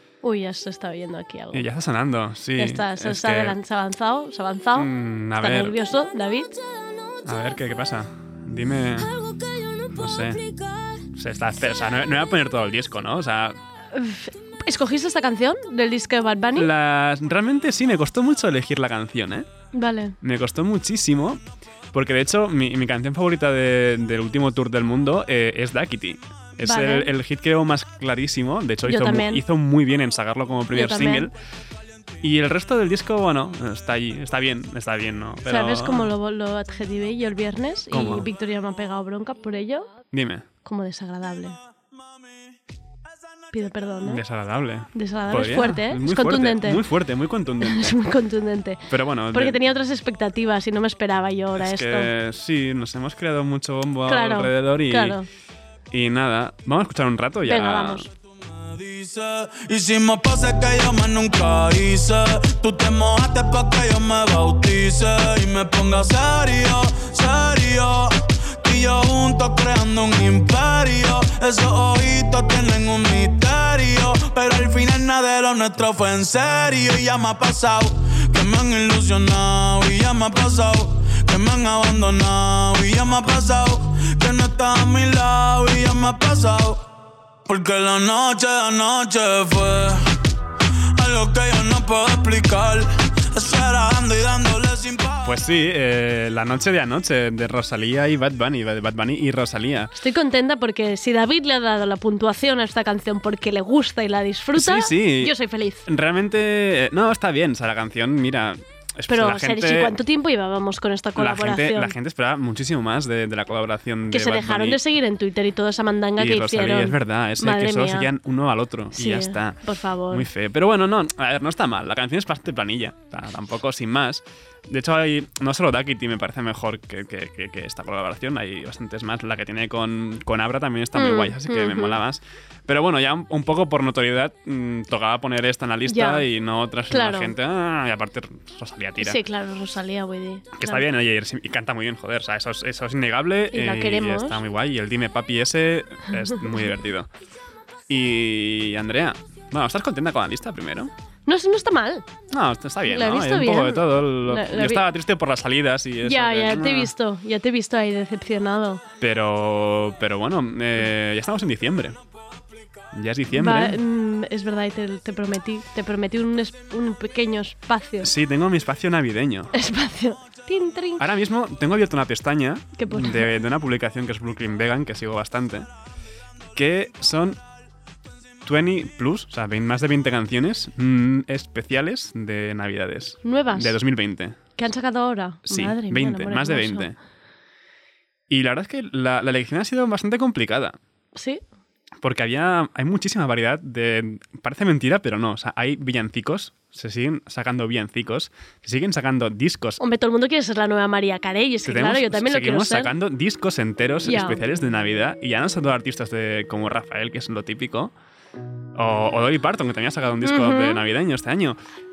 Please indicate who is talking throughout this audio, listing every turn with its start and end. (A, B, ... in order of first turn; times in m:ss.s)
0:00.2-0:01.6 A
0:01.5-0:03.6 B
0:02.6-0:06.5 A
0:04.8-0:05.8 B
0:07.3-0:09.1 B
0:10.0-0:10.4 B
0:11.2-0:13.6 B
0:13.9-0:16.7 A
0:16.5-0:19.5 B
0:19.7-0:20.2 A
0:20.2-0:21.4 B
0:21.9-0:31.3 B
0:26.7-0:27.1 A
0:28.8-0:29.4 A
0:30.7-0:31.3 A
0:32.2-0:36.1 B
0:35.5-0:39.9 A
0:37.9-0:38.3 B
0:40.1-0:40.5 B
0:40.6-0:41.6 A
0:43.5-0:44.2 A
0:44.0-0:48.0 B
0:44.9-0:46.8 A
0:47.6-0:52.1 A
0:48.9-0:49.6 B
0:51.6-0:55.2 B
0:54.1-0:55.2 A
0:55.9-0:58.1 B
0:57.5-0:58.1 A
0:58.6-1:26.8 C
1:27.5-1:30.0 C
1:31.0-1:35.3 C
1:35.2-1:39.9 B
1:40.0-1:45.9 A
1:44.6-1:45.3 B
1:45.9-1:49.9 B
1:49.1-1:51.9 A
1:51.2-1:54.8 B
1:54.1-1:58.1 A
1:56.2-1:59.6 B
1:58.9-2:00.3 A
2:00.1-2:19.2 B
2:11.0-2:12.0 A
2:15.9-2:16.2 A
2:16.9-2:17.3 A
2:19.0-2:20.8 A
2:20.6-2:27.1 B
2:23.5-2:24.4 A
2:27.9-2:30.9 B
2:31.3-2:32.0 A
2:32.3-2:36.9 B
2:32.9-2:34.9 A
2:36.0-2:38.8 A
2:39.0-2:42.0 B
2:42.9-2:43.8 B
2:43.4-2:48.1 A
2:48.0-2:49.5 B
2:49.5-2:51.0 A
2:51.0-2:55.7 B
2:52.8-2:53.3 A
2:56.6-2:57.4 B
2:58.4-3:04.4 B
3:03.2-3:03.8 A
3:04.6-3:06.9 A
3:05.5-3:07.0 B
3:08.3-3:10.8 B
3:11.2-3:11.4 A
3:12.0-3:19.8 B
3:19.8-3:22.9 A
3:21.7-3:27.9 B
3:24.0-3:24.4 A
3:28.8-3:31.6 B
3:30.2-3:30.8 A